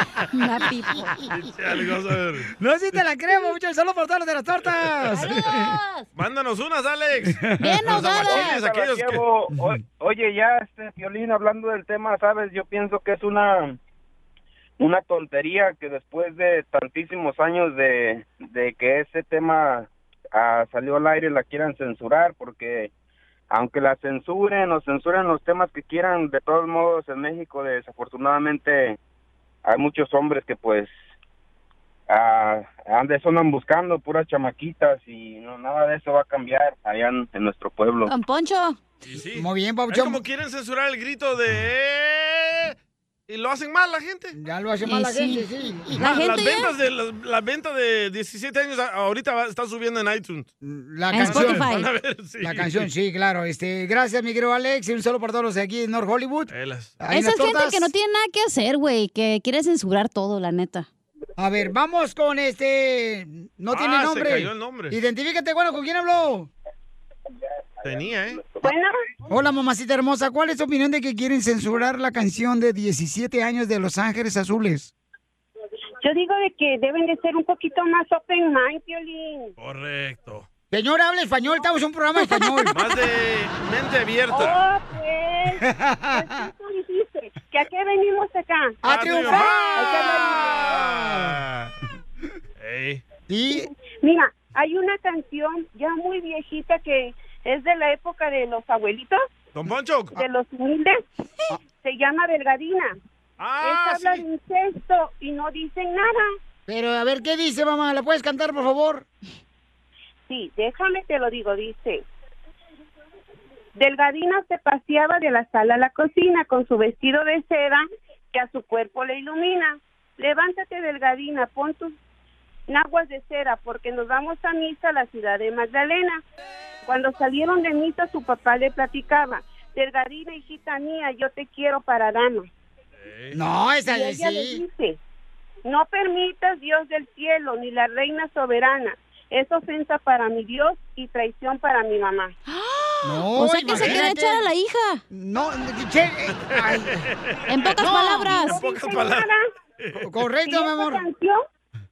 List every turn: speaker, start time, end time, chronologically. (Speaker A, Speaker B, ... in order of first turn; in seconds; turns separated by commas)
Speaker A: 0.3-1.3, Speaker B: 1.3-2.5, Speaker C: 2.6-5.8, Speaker A: 5.1-6.1, Speaker B: 6.2-9.2, Speaker A: 7.6-8.6, Speaker D: 8.2-13.8, Speaker D: 14.8-22.9, Speaker D: 23.5-29.0, Speaker D: 29.6-30.9, Speaker D: 32.1-38.1, Speaker A: 38.1-38.8, Speaker B: 39.0-42.8, Speaker C: 39.4-40.2, Speaker B: 43.3-44.4, Speaker C: 44.3-46.1, Speaker A: 44.8-46.7, Speaker B: 46.0-50.5, Speaker C: 50.6-51.7, Speaker A: 51.1-51.9, Speaker B: 51.2-52.9, Speaker C: 52.4-57.9, Speaker B: 56.5-57.0, Speaker A: 57.1-60.9, Speaker C: 61.4-66.5, Speaker B: 63.7-65.0, Speaker B: 67.8-68.6, Speaker E: 68.6-68.9, Speaker C: 69.3-74.9, Speaker E: 76.0-79.5, Speaker B: 79.6-80.5, Speaker C: 80.7-82.7, Speaker B: 82.7-84.6, Speaker E: 84.3-90.7, Speaker C: 85.6-86.4, Speaker C: 88.8-91.4, Speaker B: 88.8-91.7, Speaker B: 92.6-93.0, Speaker C: 93.3-93.7, Speaker E: 93.5-99.2, Speaker B: 99.5-100.2, Speaker E: 100.1-101.0, Speaker E: 101.8-103.0, Speaker B: 103.4-104.2, Speaker E: 103.6-106.3, Speaker C: 106.7-109.1, Speaker E: 110.3-112.0, Speaker E: 113.8-122.0, Speaker E: 122.7-126.2, Speaker E: 126.8-132.5, Speaker B: 133.0-133.3, Speaker C: 133.3-134.6, Speaker E: 133.9-135.0, Speaker E: 135.6-142.3, Speaker A: 142.5-145.0, Speaker C: 143.0-144.4, Speaker C: 145.1-147.1, Speaker B: 146.4-149.3, Speaker A: 147.5-148.6, Speaker E: 147.8-149.5, Speaker B: 149.8-150.0, Speaker C: 149.9-151.0, Speaker E: 150.5-151.4